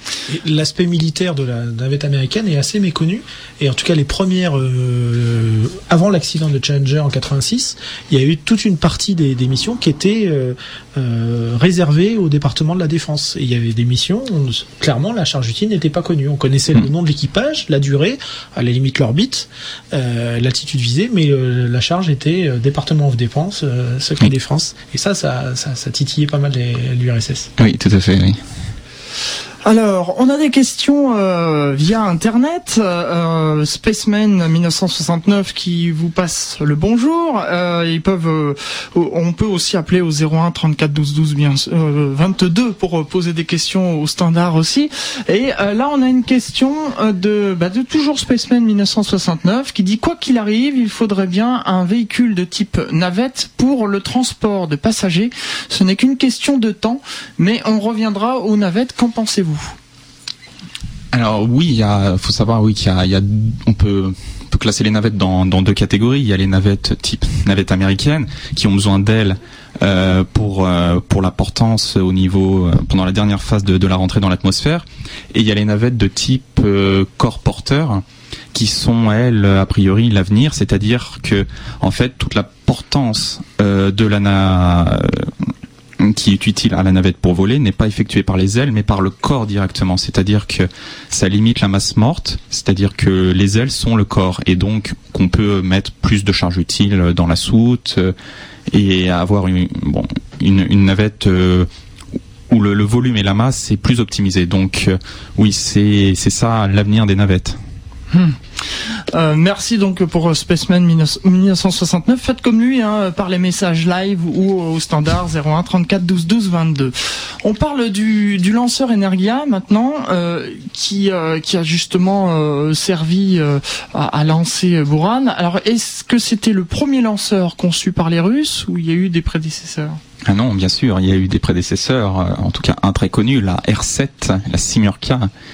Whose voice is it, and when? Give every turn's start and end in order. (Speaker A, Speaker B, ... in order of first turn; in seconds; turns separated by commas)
Speaker A: 0.3-27.5, Speaker B: 27.6-28.4, Speaker C: 29.6-59.8, Speaker B: 61.1-85.5, Speaker B: 86.0-98.1, Speaker B: 98.7-101.7, Speaker B: 102.5-107.6, Speaker C: 108.1-108.4, Speaker C: 109.1-130.0, Speaker B: 130.2-135.3